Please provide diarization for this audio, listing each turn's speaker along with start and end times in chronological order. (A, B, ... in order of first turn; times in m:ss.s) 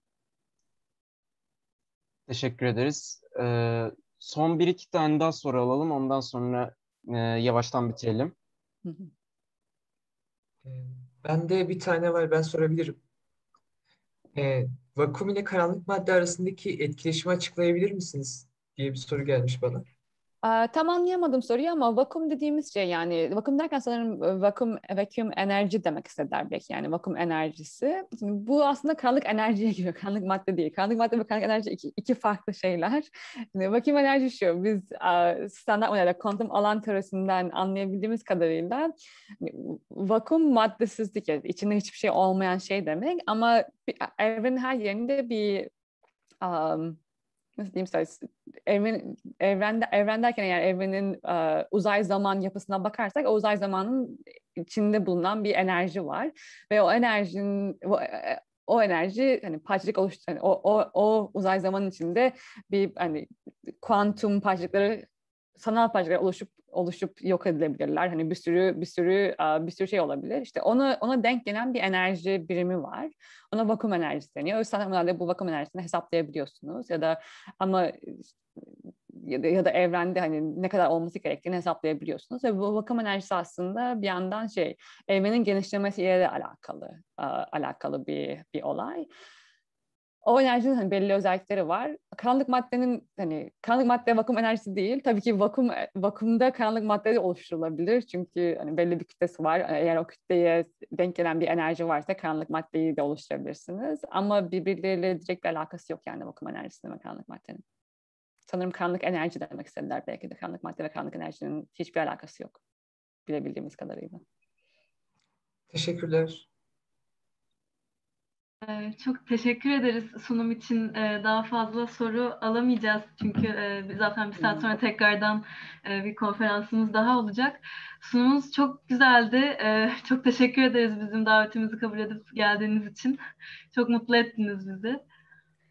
0:02.3-0:08.4 A
0:08.8-0:09.1 B
0:10.6-0:13.0 C
0:14.4-0:19.9 C
0:20.4-0:45.7 B
0:46.4-0:47.0 B
0:47.6-1:03.3 B
1:03.8-1:05.1 B
1:05.6-1:18.2 B
1:19.1-1:29.1 B
1:30.2-1:47.6 B
1:48.5-1:52.6 B
1:53.3-1:54.2 B
1:55.7-1:56.5 C
1:58.6-2:13.2 D
2:13.7-2:15.0 D